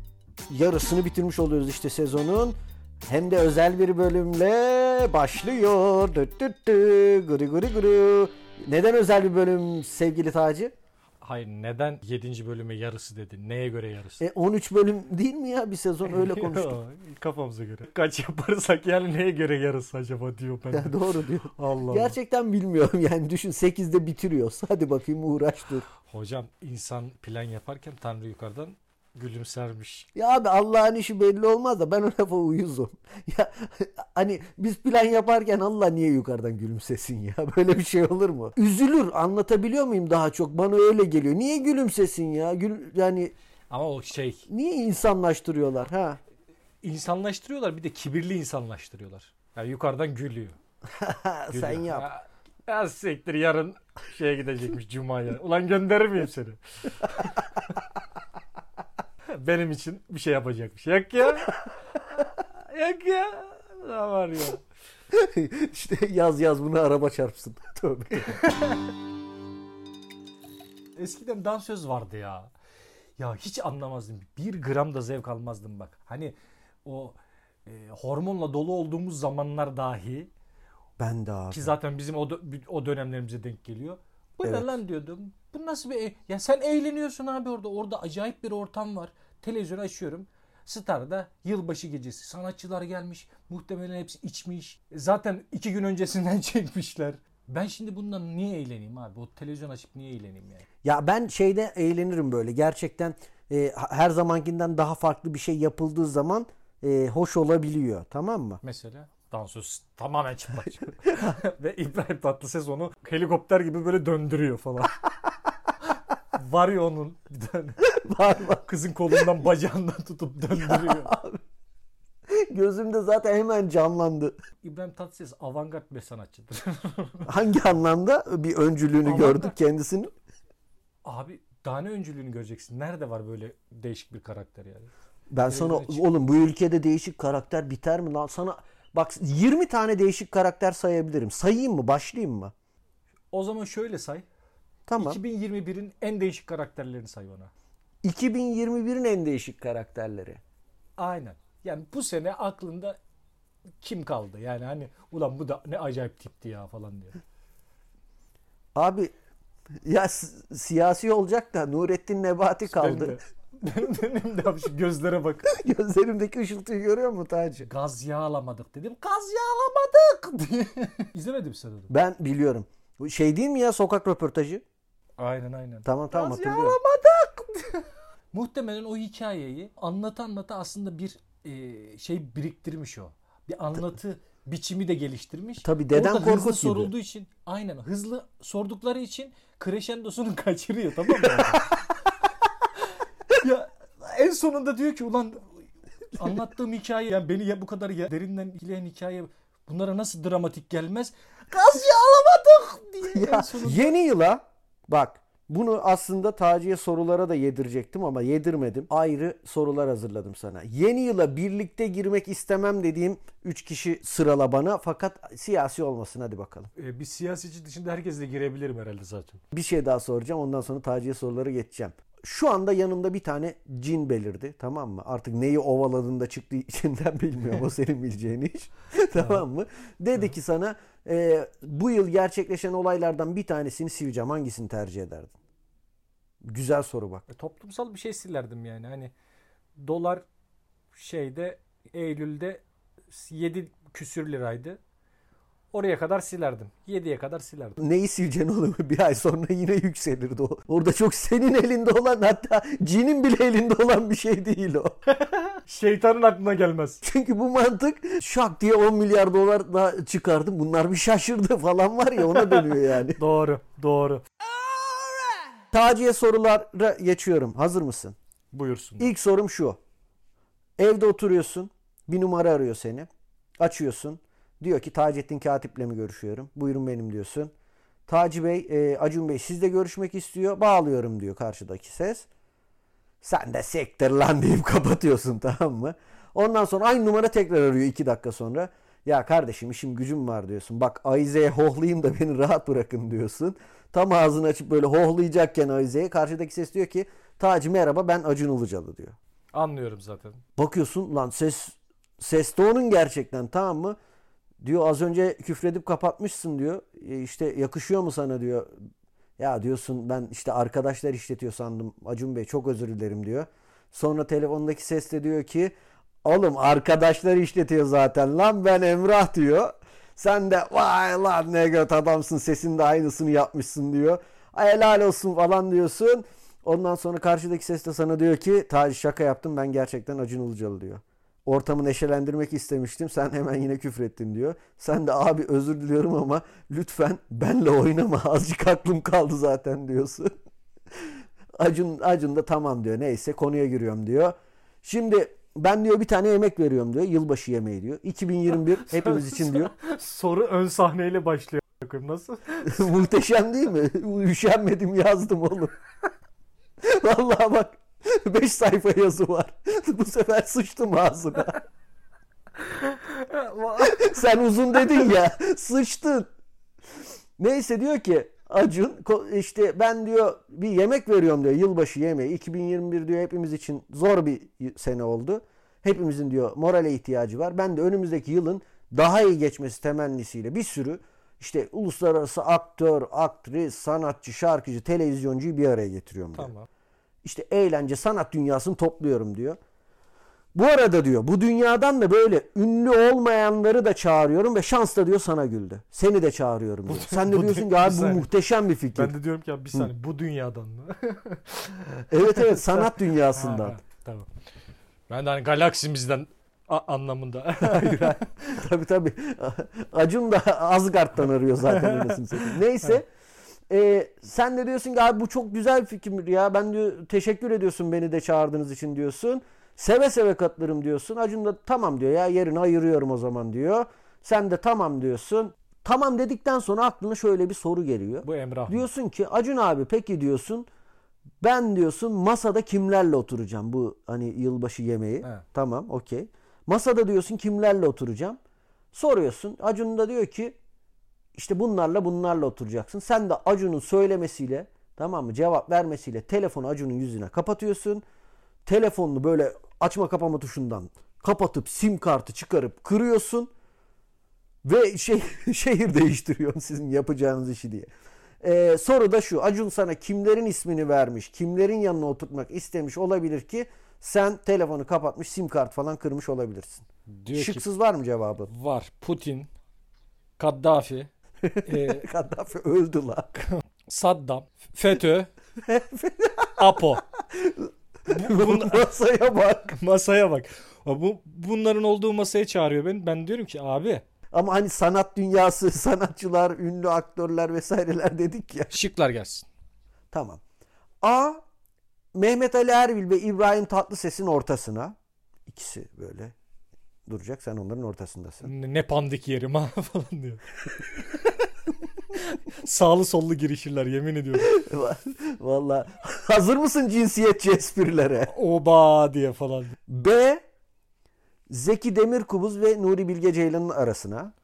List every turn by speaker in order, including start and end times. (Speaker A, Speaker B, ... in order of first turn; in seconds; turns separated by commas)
Speaker A: 0.5-10.7, Speaker B: 11.2-14.2, Speaker A: 14.2-16.8, Speaker B: 16.0-21.0, Speaker A: 20.7-25.9, Speaker B: 21.6-22.1, Speaker B: 26.0-30.1, Speaker A: 30.1-43.3, Speaker B: 43.7-44.5, Speaker A: 44.5-46.2, Speaker B: 46.8-50.5, Speaker A: 51.0-52.1, Speaker B: 51.5-57.4, Speaker B: 59.3-61.6, Speaker B: 62.4-64.6, Speaker A: 65.1-68.5, Speaker B: 68.4-68.8, Speaker B: 71.0-72.5, Speaker B: 73.2-80.3, Speaker A: 81.0-81.7, Speaker B: 81.5-100.7, Speaker A: 100.8-108.6, Speaker B: 108.6-114.9, Speaker B: 116.3-117.8, Speaker A: 117.9-118.6, Speaker B: 118.5-121.1, Speaker A: 120.6-121.4, Speaker A: 122.3-124.3, Speaker B: 124.6-127.3, Speaker A: 127.3-130.1, Speaker B: 129.0-129.6, Speaker B: 131.0-134.9, Speaker A: 135.3-142.5, Speaker B: 135.5-136.0, Speaker B: 143.3-144.2, Speaker A: 144.9-145.2, Speaker B: 145.0-147.5, Speaker A: 148.0-150.4, Speaker B: 151.0-153.0, Speaker B: 153.8-157.2, Speaker A: 158.7-159.1, Speaker A: 159.8-163.2, Speaker B: 162.7-165.5, Speaker A: 165.5-167.7, Speaker B: 167.6-171.9, Speaker A: 171.9-174.6, Speaker B: 175.2-191.7, Speaker A: 175.8-176.8, Speaker A: 185.6-186.9, Speaker B: 193.3-195.6, Speaker B: 196.1-203.9, Speaker A: 203.1-216.7, Speaker B: 216.8-219.4, Speaker A: 219.5-235.3, Speaker B: 229.2-229.4, Speaker A: 236.4-237.2, Speaker B: 237.3-239.1, Speaker B: 239.8-240.2, Speaker B: 240.9-244.8, Speaker B: 245.7-247.8, Speaker A: 247.8-254.9, Speaker B: 255.1-257.0, Speaker A: 257.0-263.2, Speaker B: 262.3-264.2, Speaker B: 264.8-265.2, Speaker A: 265.7-268.1, Speaker B: 268.5-269.1, Speaker A: 269.0-269.8, Speaker A: 270.8-273.1, Speaker A: 273.6-277.5, Speaker A: 278.1-282.3, Speaker A: 283.2-299.2, Speaker B: 299.5-300.4, Speaker A: 300.6-304.0, Speaker A: 304.6-308.7, Speaker A: 309.4-315.7, Speaker A: 316.2-340.3, Speaker A: 341.6-349.7, Speaker B: 348.9-352.9, Speaker A: 352.6-355.8, Speaker A: 356.8-361.6, Speaker B: 362.7-364.2, Speaker A: 363.8-366.3, Speaker A: 367.4-386.5, Speaker B: 386.3-386.7, Speaker A: 387.2-389.6, Speaker A: 390.5-399.1, Speaker B: 396.9-398.3, Speaker B: 398.9-404.3, Speaker A: 402.1-403.8, Speaker B: 405.1-408.2, Speaker A: 407.6-413.1, Speaker B: 411.7-412.6, Speaker A: 413.7-430.7, Speaker B: 428.2-428.8, Speaker A: 431.4-438.4, Speaker A: 438.9-440.6, Speaker A: 441.3-448.0, Speaker A: 448.6-453.5, Speaker A: 454.6-457.9, Speaker A: 458.4-468.5, Speaker B: 467.1-467.6, Speaker B: 468.5-469.5, Speaker B: 470.4-471.1, Speaker A: 471.4-473.4, Speaker B: 471.6-472.0, Speaker B: 473.6-475.3, Speaker A: 475.6-476.6, Speaker B: 476.6-477.0, Speaker A: 477.3-479.8, Speaker B: 478.1-478.9, Speaker B: 479.7-484.0, Speaker A: 484.3-488.8, Speaker B: 488.7-489.4, Speaker A: 490.1-490.4, Speaker A: 491.0-491.4, Speaker A: 492.1-494.9, Speaker A: 495.5-496.3, Speaker A: 497.1-498.5, Speaker B: 498.4-501.1, Speaker B: 502.1-504.5, Speaker A: 504.4-508.3, Speaker B: 508.3-509.8, Speaker A: 509.9-510.4, Speaker A: 511.5-514.3